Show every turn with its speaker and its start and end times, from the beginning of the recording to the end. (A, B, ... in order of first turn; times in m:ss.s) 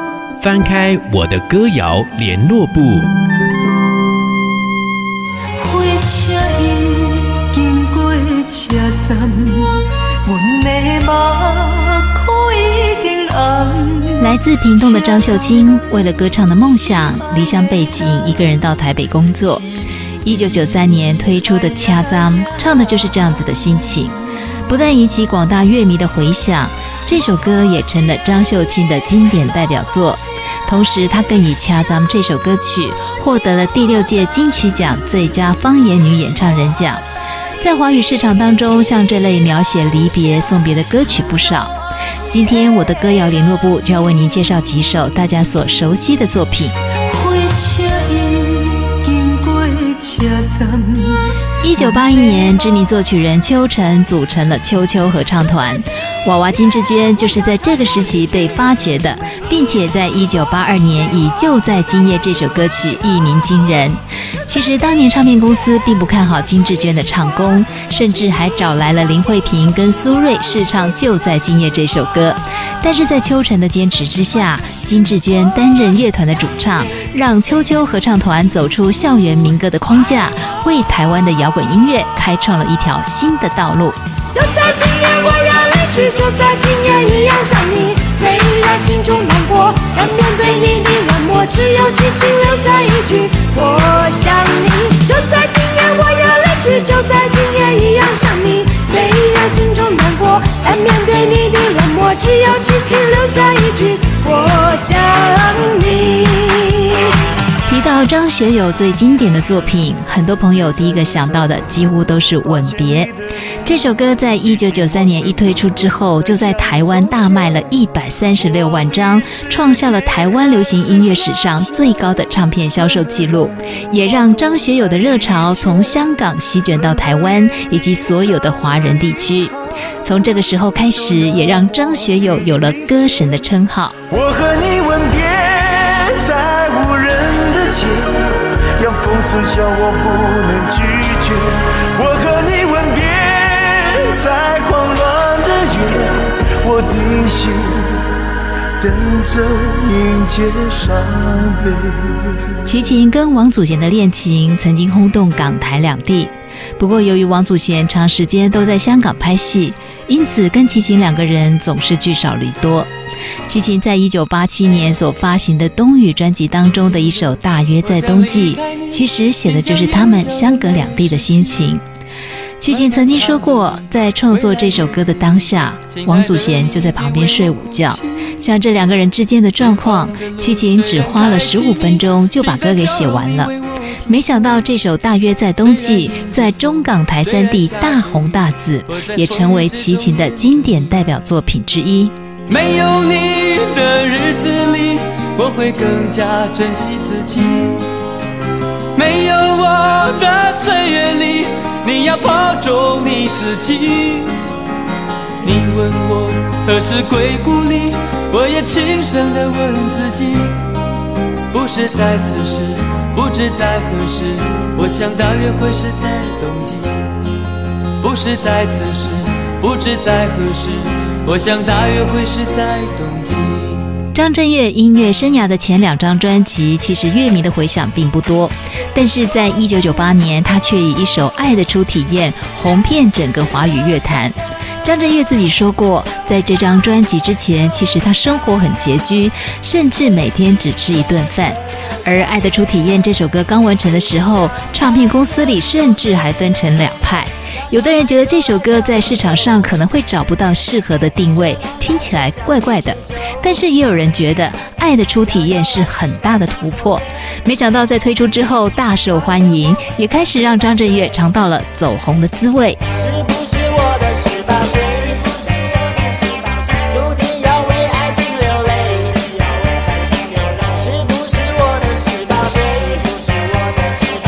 0:00.4-0:03.1 A
0:05.6-0:14.1 B
0:14.2-0:19.6 C
0:20.2-0:37.0 C
0:37.6-0:41.7 C
0:42.3-0:46.8 C
0:47.1-0:51.2 B
0:51.6-1:24.0 C
1:24.3-1:47.2 B
1:47.6-2:14.0 C
2:14.1-2:28.0 D
2:28.8-2:32.2 D
2:32.6-2:42.9 C
2:43.5-2:51.8 C
2:47.8-2:51.6 E
2:52.6-3:03.5 C
2:52.7-2:53.8 E
2:54.3-2:58.1 E
2:59.7-3:04.1 E
3:04.1-3:12.1 C
3:05.6-3:06.2 E
3:07.2-3:08.3 E
3:08.9-3:10.8 E
3:12.5-3:17.9 E
3:19.0-3:24.4 E
3:25.4-3:30.6 E
3:31.5-3:37.1 E
3:38.0-3:43.9 E
3:44.1-4:22.8 C
4:23.2-4:25.4 F
4:26.8-4:29.5 F
4:30.0-4:34.1 F